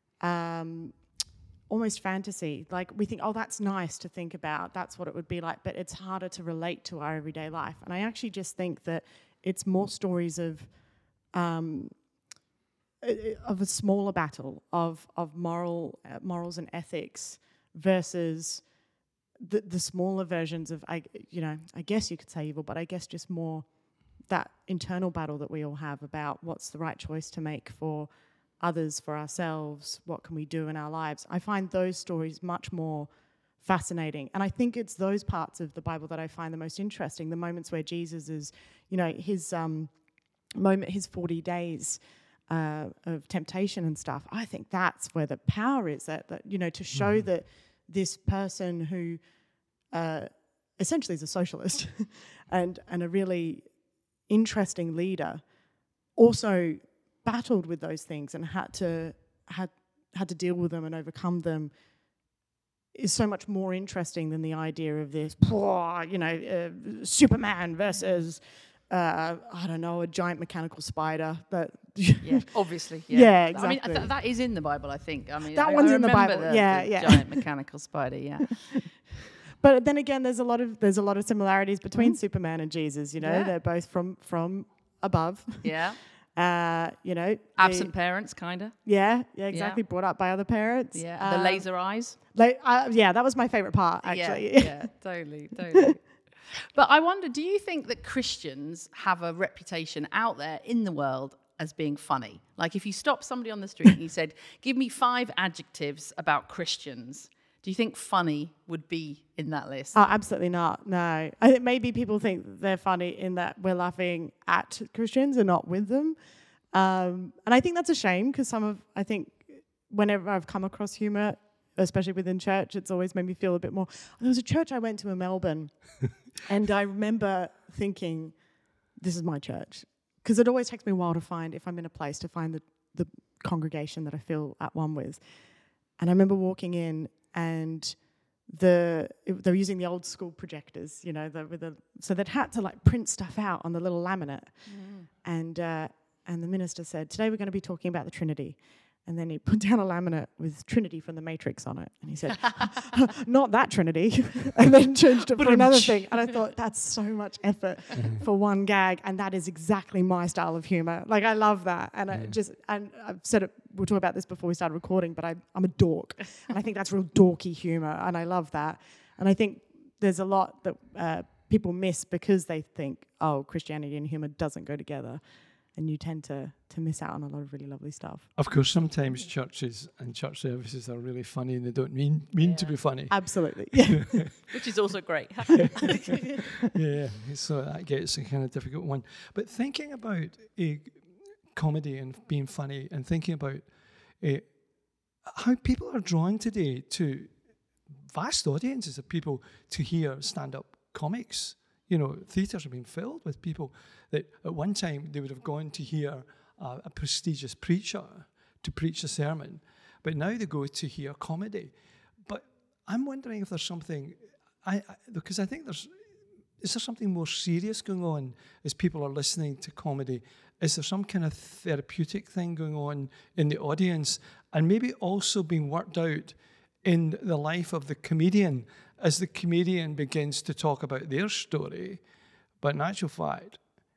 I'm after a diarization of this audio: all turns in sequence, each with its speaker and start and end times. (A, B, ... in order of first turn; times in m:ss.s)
0:00.2-0:01.0 A
0:01.7-0:10.7 A
0:11.3-0:11.9 A
0:13.0-0:18.6 A
0:19.4-0:23.7 A
0:24.2-0:33.1 A
0:33.6-0:39.9 A
0:40.6-0:49.2 A
0:46.9-0:47.3 B
0:49.9-0:53.7 A
0:54.3-0:55.4 A
0:56.2-1:01.7 A
1:02.9-1:12.5 A
1:12.2-1:19.0 C
1:13.1-1:14.1 A
1:15.5-1:17.4 A
1:19.6-1:25.8 A
1:21.9-1:22.2 C
1:23.2-1:23.5 C
1:25.6-1:26.0 C
1:26.3-1:27.9 A
1:27.6-1:28.8 C
1:28.8-1:34.9 A
1:29.5-1:29.8 C
1:30.9-1:32.2 C
1:34.0-1:50.0 C
1:49.9-1:56.2 A
1:56.7-2:08.4 A
2:09.0-2:15.2 A
2:16.0-2:24.7 A
2:24.7-2:25.1 C
2:25.2-2:55.2 A
2:35.4-2:36.1 B
2:38.0-2:38.2 B
2:55.7-2:58.3 A
2:58.4-3:04.5 B
3:02.4-3:02.7 C
3:03.1-3:04.3 A
3:04.5-3:06.4 C
3:06.7-3:13.7 B
3:14.2-3:14.6 B
3:15.2-3:17.4 B
3:18.0-3:31.7 B
3:32.2-3:35.9 B
3:36.6-3:52.0 B
3:52.6-3:53.6 B